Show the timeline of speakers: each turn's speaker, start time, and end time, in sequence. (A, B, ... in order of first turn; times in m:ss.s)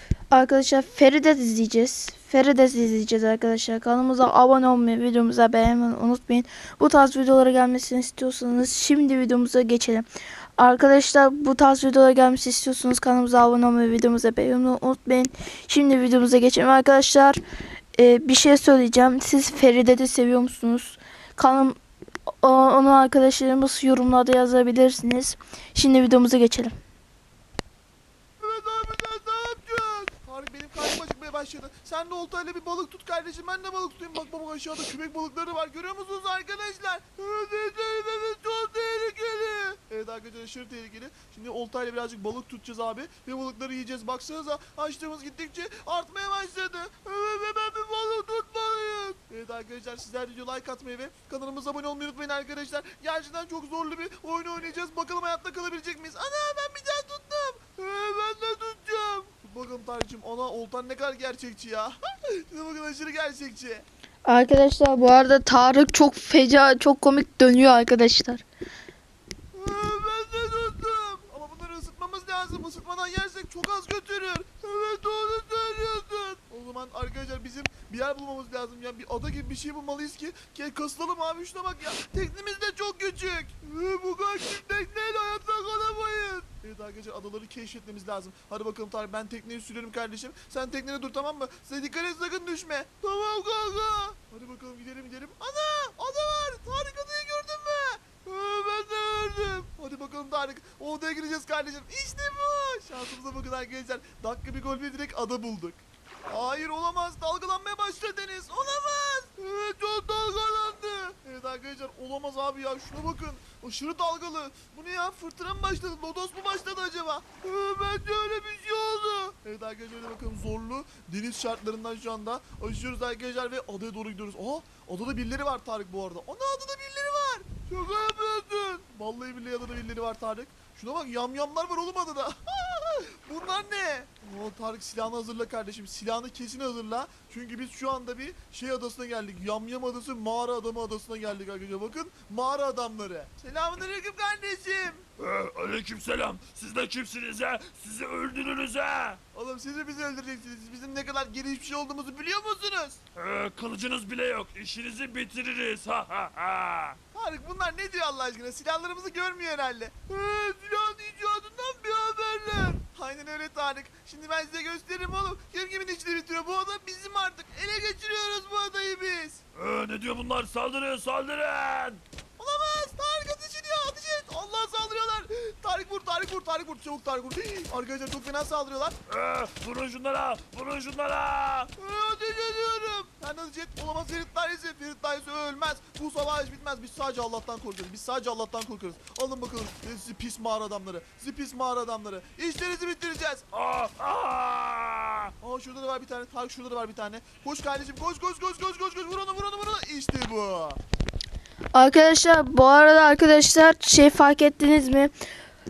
0:00.3-0:10.1 A
0:10.6-0:17.4 A
0:18.0-0:21.8 A
0:22.4-0:26.8 A
0:28.4-1:03.9 B
1:04.2-1:08.4 A
1:09.5-2:25.1 B
2:25.2-2:29.2 C
2:29.3-2:33.0 B
2:33.2-2:37.0 C
2:37.1-2:49.4 B
2:49.5-2:52.0 C
2:52.4-2:59.0 B
2:59.1-3:01.7 C
3:01.8-3:13.5 B
3:13.5-3:15.3 C
3:15.4-3:20.8 B
3:21.7-3:25.1 A